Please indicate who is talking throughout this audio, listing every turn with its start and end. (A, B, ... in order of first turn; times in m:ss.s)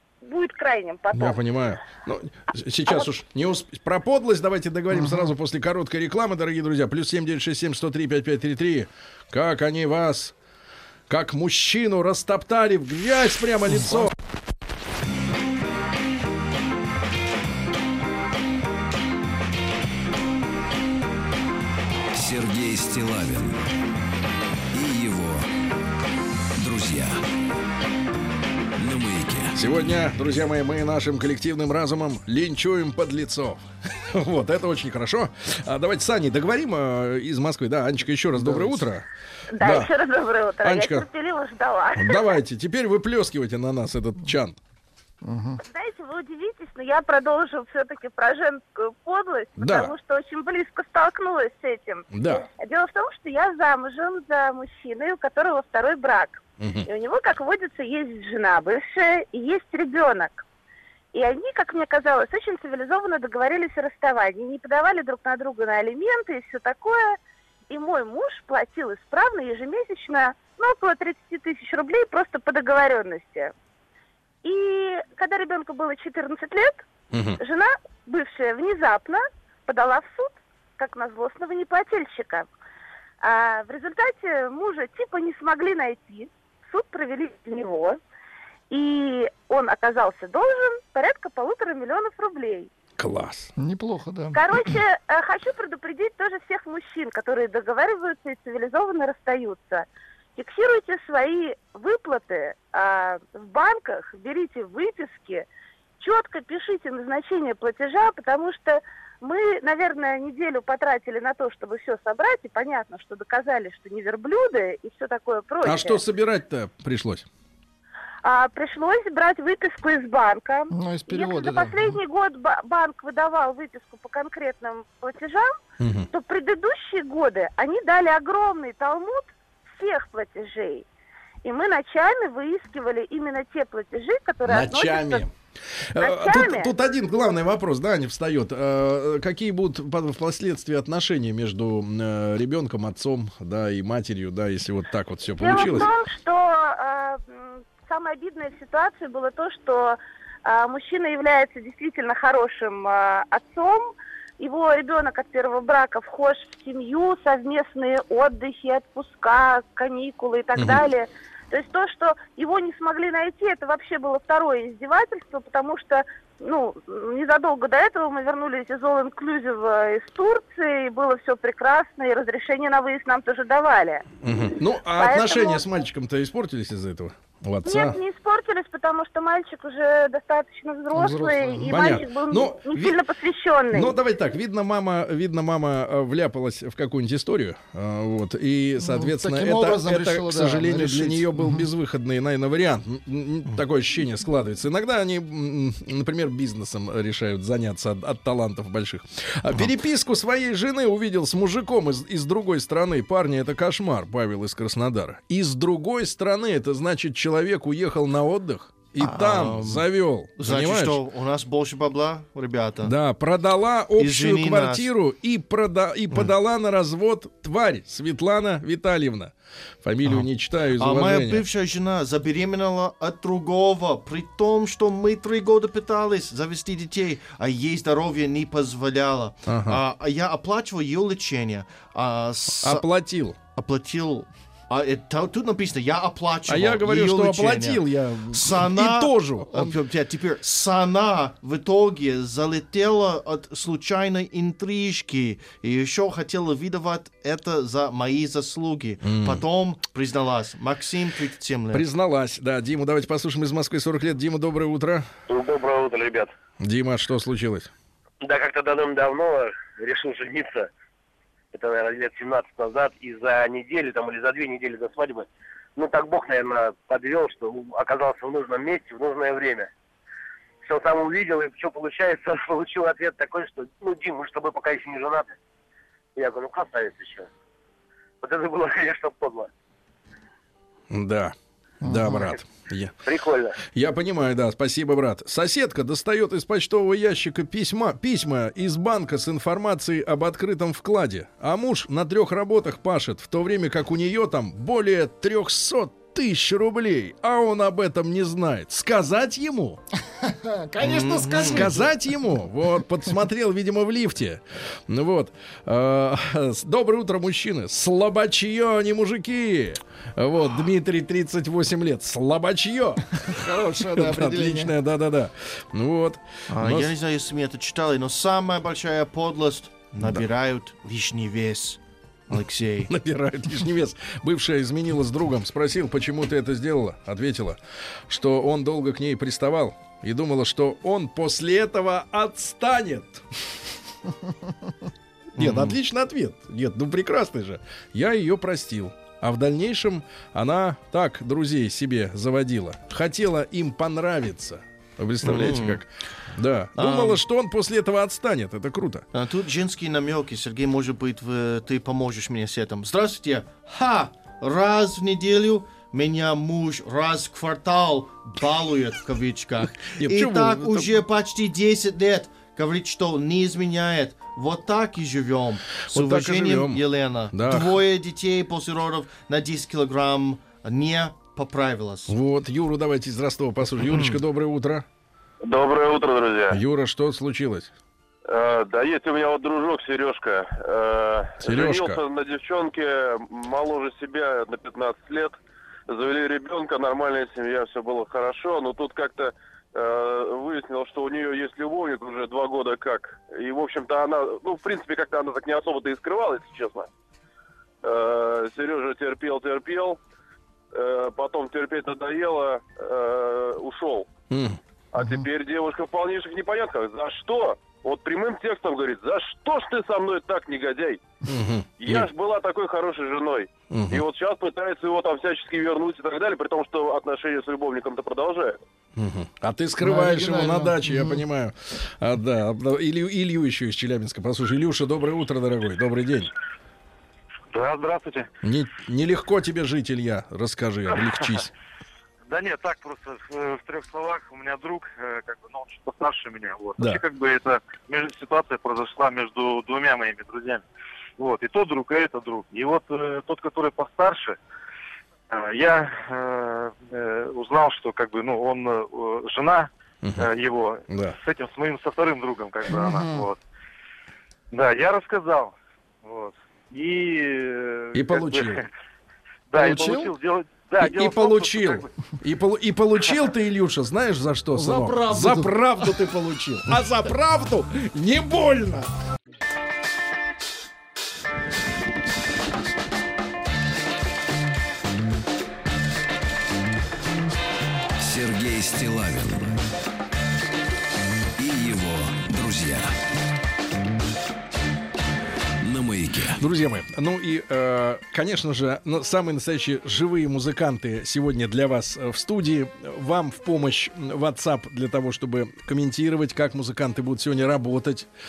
0:00.2-0:01.4 A
0:01.1-0:10.3 B
0:04.9-0:05.3 C
0:11.1-0:14.1 B
0:22.1-0:23.6 D
0:24.7-0:25.5 D
0:26.6-0:27.2 D
0:28.8-0:29.6 D
0:29.5-0:39.0 B
0:38.4-0:38.8 C
0:39.6-0:42.4 A
0:39.6-0:39.9 B
0:40.6-0:41.0 B
0:42.0-0:44.6 B
0:45.2-0:45.6 C
0:45.6-1:00.4 A
0:49.6-0:49.9 B
0:52.1-0:52.4 B
0:56.6-0:56.9 B
1:01.1-1:07.2 A
1:07.7-1:13.5 A
1:14.4-1:16.8 A
1:17.1-1:17.4 B
1:17.4-1:22.5 A
1:23.2-1:28.0 A
1:28.7-1:32.7 A
1:33.0-1:33.5 B
1:33.6-1:34.4 C
1:34.3-1:45.5 A
1:46.0-1:56.0 A
1:55.6-1:57.2 B
1:58.2-2:05.5 A
2:00.7-2:02.0 C
2:05.8-2:06.1 B
2:06.1-2:10.8 A
2:11.4-2:15.2 A
2:14.4-2:15.3 B
2:15.9-2:25.9 B
2:16.0-2:16.7 A
2:25.4-2:54.0 A
2:40.6-2:40.8 B
2:54.2-2:58.0 B
2:54.9-2:55.6 A
2:57.6-3:03.9 A
3:00.9-3:01.7 C
3:01.6-3:03.0 B
3:03.7-3:31.0 B
3:08.8-3:11.6 C
3:29.0-3:32.9 E
3:32.8-3:41.4 B
3:34.0-3:34.9 E
3:40.0-3:52.8 E
3:49.5-3:49.8 B
3:52.6-3:53.4 B
3:53.6-4:11.8 E
3:56.5-3:59.7 B
4:09.0-4:09.4 B
4:11.7-4:15.1 B
4:15.3-4:16.3 F
4:16.6-4:17.7 B
4:18.2-4:20.7 F
4:21.5-4:29.7 F
4:30.6-4:35.3 F
4:36.2-4:37.3 F
4:38.2-4:39.5 F
4:40.9-4:42.9 B
4:41.8-4:42.3 C
4:43.0-4:43.5 F
4:43.7-4:59.8 B
5:00.2-5:01.9 C
5:00.8-5:01.8 E
5:01.3-5:16.9 B
5:13.3-5:14.7 C
5:16.5-5:22.9 E
5:22.9-5:33.2 B
5:35.3-5:49.0 B
5:35.4-5:35.8 E
5:45.2-5:45.8 E
5:46.8-5:47.2 E
5:49.1-6:12.1 E
6:00.0-6:01.0 B
6:05.9-6:07.8 B
6:12.1-6:14.8 B
6:13.8-6:14.2 E
6:15.4-6:16.6 G
6:16.5-6:17.7 B
6:18.3-6:25.4 G
6:21.4-6:22.0 B
6:25.9-6:36.9 G
6:37.8-6:40.0 G
6:40.7-6:44.1 G
6:44.3-6:44.6 B
6:44.9-6:51.0 G
6:51.3-6:52.1 B
6:51.8-6:58.6 G
6:53.7-6:54.0 B
6:59.0-7:06.3 B
6:59.8-7:01.2 C
7:07.5-7:08.3 H
7:08.4-7:11.5 B
7:12.3-7:20.6 H
7:16.8-7:17.0 B
7:21.2-7:24.4 H
7:25.3-7:33.4 H
7:30.9-7:31.2 B
7:34.5-7:38.7 H
7:37.9-7:38.6 B
7:39.5-7:41.9 H
7:39.5-7:40.1 C
7:40.8-7:48.9 B
7:44.5-7:45.9 C
7:58.0-7:59.6 D
8:01.4-8:02.9 D
8:05.6-8:06.4 D
8:06.4-8:18.1 B